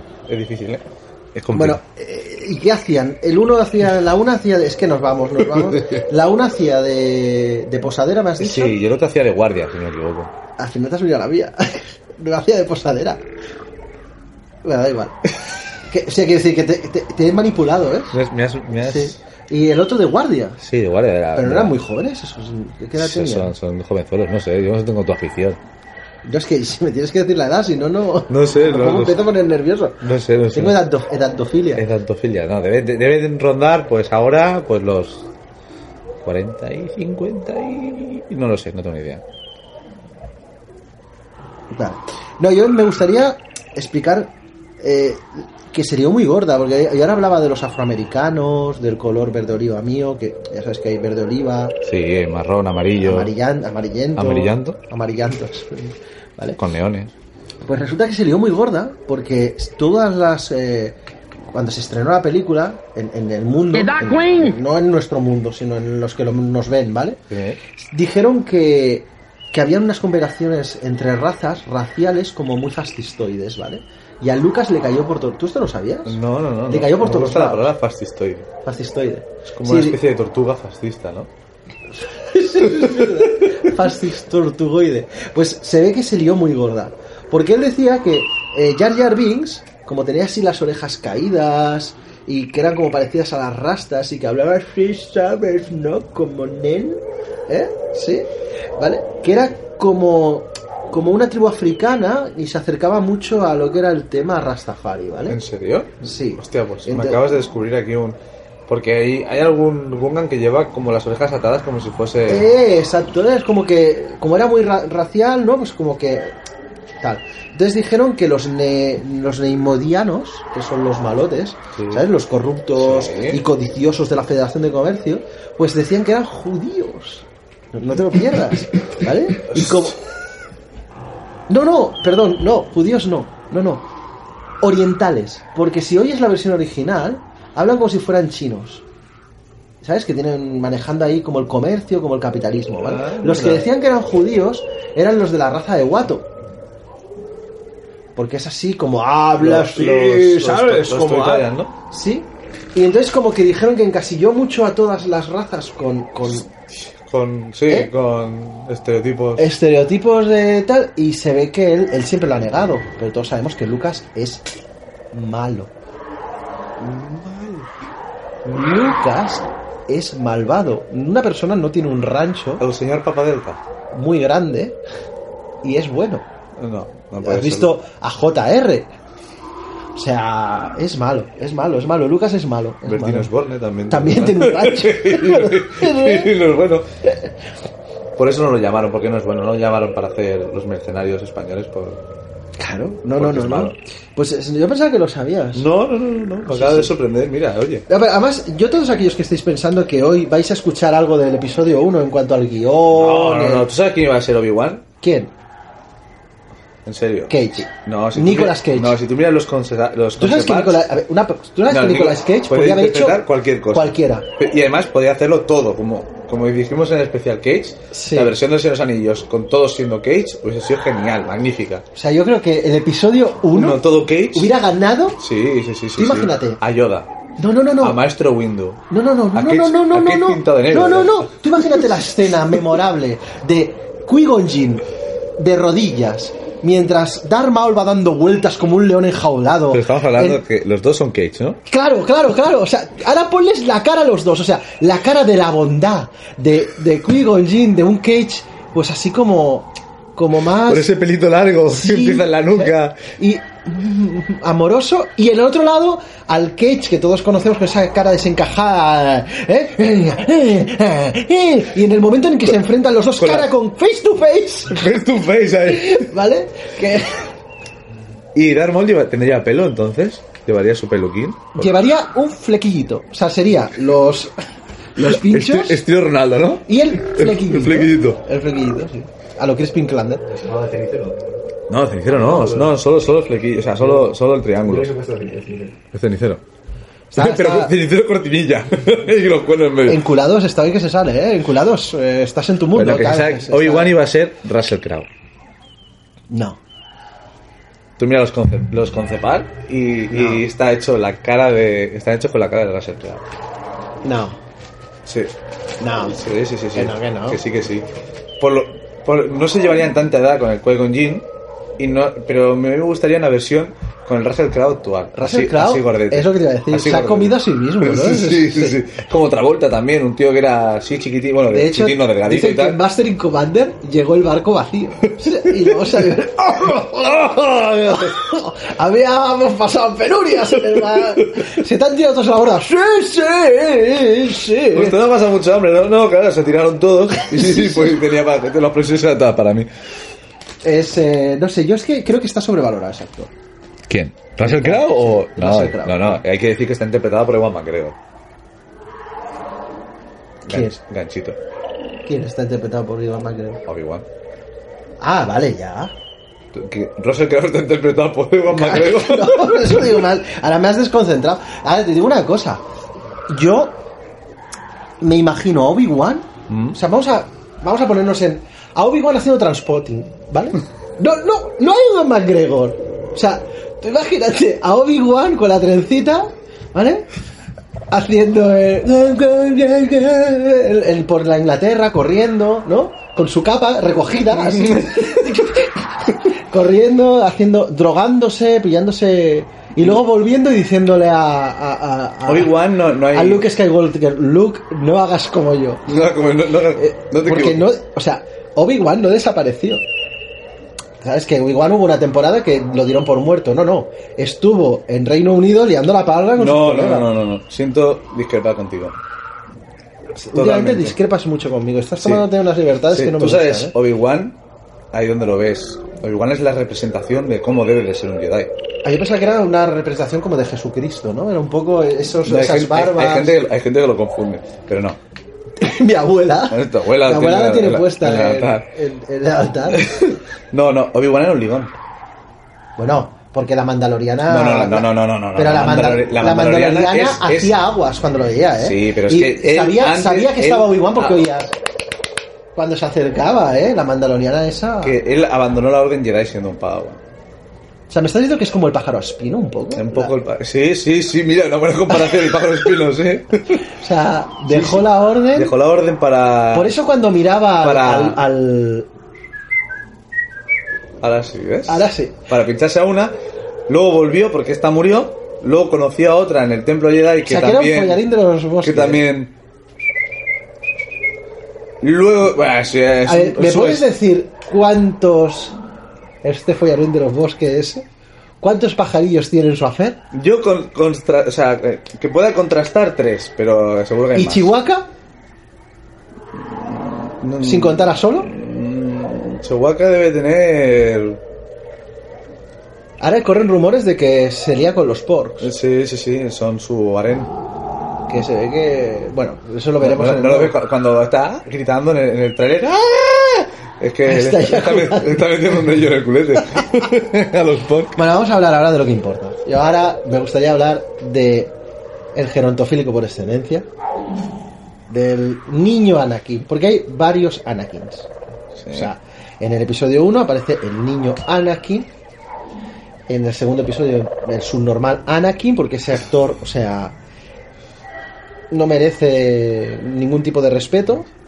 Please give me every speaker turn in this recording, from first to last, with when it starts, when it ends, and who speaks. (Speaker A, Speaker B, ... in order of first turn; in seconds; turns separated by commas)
Speaker A: 0.3-1.8, Speaker B: 1.5-8.8, Speaker A: 5.4-6.0, Speaker A: 8.4-10.3, Speaker B: 10.6-13.2, Speaker B: 14.6-15.2, Speaker B: 15.9-18.2, Speaker A: 18.1-19.2, Speaker B: 18.8-20.6, Speaker A: 20.6-21.8, Speaker B: 21.4-23.5, Speaker A: 22.9-25.6, Speaker B: 26.2-30.0, Speaker A: 28.3-29.3, Speaker A: 30.0-30.8, Speaker B: 30.5-31.9, Speaker A: 31.8-35.3, Speaker A: 36.2-39.2, Speaker B: 41.7-51.8, Speaker A: 51.9-53.3, Speaker B: 53.0-56.6, Speaker A: 54.1-54.8, Speaker A: 56.6-57.1, Speaker B: 57.6-61.0, Speaker B: 61.5-67.2, Speaker A: 67.3-67.6, Speaker B: 67.8-77.7, Speaker A: 76.1-78.5, Speaker B: 78.6-80.0, Speaker A: 79.5-81.3, Speaker B: 82.0-105.4, Speaker A: 82.8-83.6, Speaker A: 105.3-112.5, Speaker B: 106.0-107.2, Speaker B: 112.3-116.3, Speaker B: 117.0-130.0, Speaker A: 121.8-122.1, Speaker A: 122.8-123.4, Speaker A: 129.5-129.9, Speaker B: 131.5-133.8, Speaker B: 134.6-138.8, Speaker B: 139.8-146.3, Speaker A: 142.8-143.7, Speaker B: 148.2-156.5, Speaker A: 149.3-151.7, Speaker A: 156.3-159.6, Speaker B: 159.4-164.4, Speaker B: 165.1-165.7, Speaker A: 166.8-167.7, Speaker B: 168.4-172.6, Speaker A: 172.6-173.6, Speaker B: 173.9-174.8, Speaker B: 175.6-176.3, Speaker A: 176.6-177.7, Speaker B: 177.2-178.9, Speaker B: 179.9-183.3, Speaker A: 182.8-186.9, Speaker B: 183.9-186.3, Speaker A: 188.2-192.0, Speaker B: 192.6-195.7, Speaker A: 193.2-193.8, Speaker A: 195.5-197.9, Speaker B: 196.4-196.9, Speaker B: 197.9-203.7, Speaker A: 202.9-204.8, Speaker B: 205.0-205.3, Speaker A: 206.8-210.9, Speaker B: 207.3-208.9, Speaker B: 210.2-214.3, Speaker A: 211.7-221.8, Speaker B: 217.9-218.3, Speaker B: 221.9-223.8, Speaker A: 223.5-224.5, Speaker B: 224.3-225.2, Speaker A: 225.2-227.1, Speaker B: 226.0-226.6, Speaker B: 227.4-228.0, Speaker A: 227.8-232.0, Speaker B: 228.9-234.8, Speaker B: 235.4-240.4, Speaker A: 239.7-241.6, Speaker B: 241.7-250.9, Speaker A: 250.6-253.1, Speaker B: 251.7-264.9, Speaker A: 263.1-263.5, Speaker A: 264.7-266.1, Speaker B: 265.6-267.3, Speaker A: 268.4-271.7, Speaker B: 271.6-274.3, Speaker B: 274.9-275.8, Speaker A: 275.0-278.2, Speaker B: 276.7-280.2, Speaker C: 280.3-281.4, Speaker A: 281.7-284.9, Speaker C: 282.1-282.8, Speaker C: 283.7-285.8, Speaker A: 285.9-286.4, Speaker B: 287.1-287.7, Speaker A: 287.1-290.1, Speaker B: 289.9-293.9, Speaker A: 292.7-295.1, Speaker B: 296.3-296.6, Speaker A: 298.0-303.2, Speaker B: 300.1-300.4, Speaker B: 304.0-304.4, Speaker A: 305.1-305.3, Speaker B: 305.8-306.2, Speaker A: 306.0-307.9, Speaker B: 306.7-307.4, Speaker A: 308.4-311.3, Speaker A: 311.8-322.8, Speaker B: 315.1-318.8, Speaker B: 321.5-335.0, Speaker A: 325.3-326.1, Speaker A: 330.8-331.4, Speaker A: 334.7-339.7, Speaker B: 337.2-338.0, Speaker B: 340.6-343.3, Speaker A: 343.9-347.9, Speaker B: 344.4-346.2, Speaker A: 350.4-351.4, Speaker B: 350.4-350.8, Speaker B: 352.1-353.6, Speaker A: 353.6-354.1, Speaker B: 355.0-355.9, Speaker A: 356.5-360.0, Speaker B: 358.5-362.6, Speaker B: 363.3-363.8, Speaker B: 365.0-377.1, Speaker A: 366.5-366.8, Speaker B: 377.9-395.8, Speaker A: 384.3-385.5, Speaker A: 392.3-393.5, Speaker A: 395.9-397.7, Speaker B: 396.8-399.9, Speaker B: 401.0-407.1, Speaker A: 406.3-409.0, Speaker B: 410.2-413.7, Speaker A: 410.3-411.0, Speaker A: 412.0-412.3, Speaker A: 412.9-414.4, Speaker A: 414.9-418.5, Speaker B: 418.8-423.4, Speaker A: 422.2-425.0, Speaker B: 425.6-429.9, Speaker A: 426.5-428.7, Speaker A: 429.7-431.7, Speaker B: 432.8-441.5, Speaker A: 434.3-437.6, Speaker A: 438.6-441.3, Speaker B: 442.6-444.9, Speaker A: 444.8-447.0, Speaker B: 447.9-450.1, Speaker A: 449.7-453.6, Speaker B: 451.9-452.3, Speaker B: 453.8-455.5, Speaker A: 454.4-456.8, Speaker B: 456.5-458.9, Speaker A: 457.6-458.2, Speaker A: 461.0-463.1, Speaker B: 461.7-462.2, Speaker A: 463.7-468.0, Speaker B: 467.3-469.0, Speaker A: 468.6-469.3, Speaker A: 471.8-473.9, Speaker B: 473.1-475.6, Speaker B: 476.2-477.9, Speaker B: 478.4-480.0, Speaker A: 480.1-484.6, Speaker B: 484.1-484.9, Speaker A: 486.3-491.2, Speaker B: 487.4-488.3, Speaker B: 493.0-495.5, Speaker A: 495.4-497.3, Speaker B: 498.1-500.5, Speaker A: 499.8-508.0, Speaker B: 504.1-505.6, Speaker B: 507.9-511.5, Speaker B: 512.1-513.7, Speaker B: 514.9-518.1, Speaker A: 518.6-518.9, Speaker B: 518.7-521.9, Speaker B: 523.1-526.9, Speaker B: 528.5-531.1